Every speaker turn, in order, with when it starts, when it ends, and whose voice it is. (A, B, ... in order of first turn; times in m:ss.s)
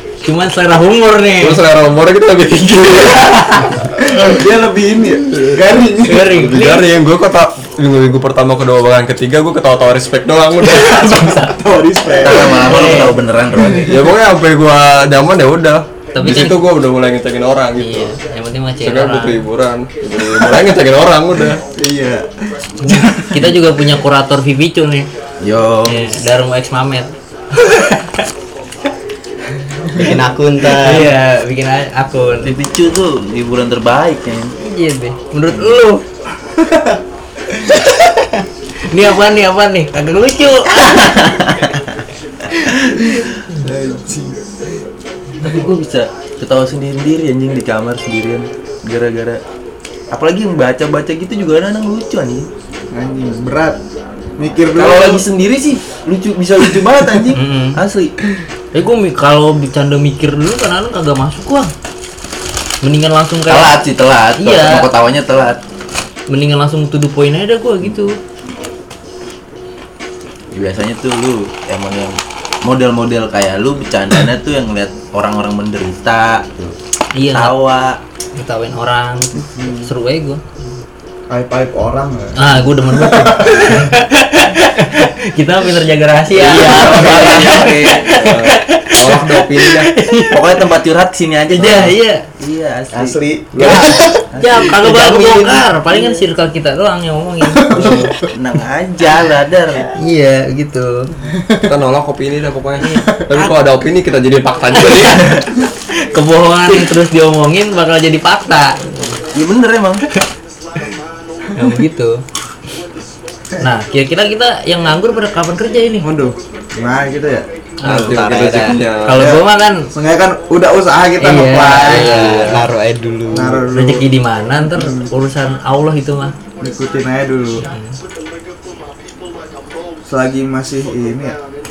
0:00.2-0:01.6 A
0:01.4-0:03.2 B
0:03.0-0:03.8 A
0:04.0-0:06.5 C
0:06.1-0:06.9 A
0:06.4-0:11.1 B
0:10.6-0:11.6 A
0:11.4-0:14.2 C
0:12.2-0:13.9 D
0:12.4-0:13.2 A
0:13.8-0:18.1 B
0:16.1-0:16.6 A
0:17.8-0:19.5 A
0:18.8-0:21.6 B
0:21.7-0:22.3 C
0:22.8-0:23.5 C
0:22.9-0:25.1 A
0:25.4-0:26.1 D
0:25.9-0:28.1 A
0:30.0-0:31.1 E
0:30.8-0:32.5 A
0:32.4-0:34.5 D
0:34.6-0:36.0 A
0:35.5-0:35.8 D
0:37.7-0:41.0 A
0:40.7-0:41.9 D
0:43.6-0:44.4 C
0:45.4-0:49.4 D
0:50.1-0:52.5 D
0:52.9-0:53.8 C
0:54.4-0:55.2 C
0:54.7-0:58.2 D
0:57.4-0:57.8 A
0:58.7-1:01.7 A
1:02.8-1:03.8 A
1:03.5-1:05.6 D
1:04.4-1:04.9 A
1:06.3-1:08.2 A
1:10.5-1:16.8 D
1:17.2-1:17.6 A
1:17.3-1:18.0 D
1:18.4-1:20.4 A
1:19.4-1:19.9 C
1:21.3-1:23.9 C
1:22.4-1:30.6 A
1:26.3-1:28.4 D
1:26.4-1:27.5 C
1:28.2-1:29.9 B
1:30.3-1:36.2 D
1:31.6-1:32.2 A
1:32.9-1:34.2 C
1:33.6-1:38.1 A
1:37.6-1:38.1 C
1:37.7-1:39.9 D
1:40.0-1:41.1 A
1:41.4-1:41.7 C
1:41.6-1:45.3 B
1:42.8-1:43.6 A
1:44.8-1:45.3 A
1:46.1-1:49.2 A
1:49.3-1:50.0 D
1:51.6-1:52.2 A
1:53.6-1:56.1 A
1:56.0-1:57.4 C
1:57.8-1:59.9 A
1:57.8-1:58.8 D
1:57.8-1:59.3 B
1:59.2-2:02.6 C
2:01.2-2:02.5 A
2:01.9-2:03.6 E
2:03.3-2:04.1 C
2:03.7-2:06.3 A
2:04.8-2:05.0 C
2:06.6-2:07.6 C
2:07.6-2:07.9 A
2:10.1-2:11.4 C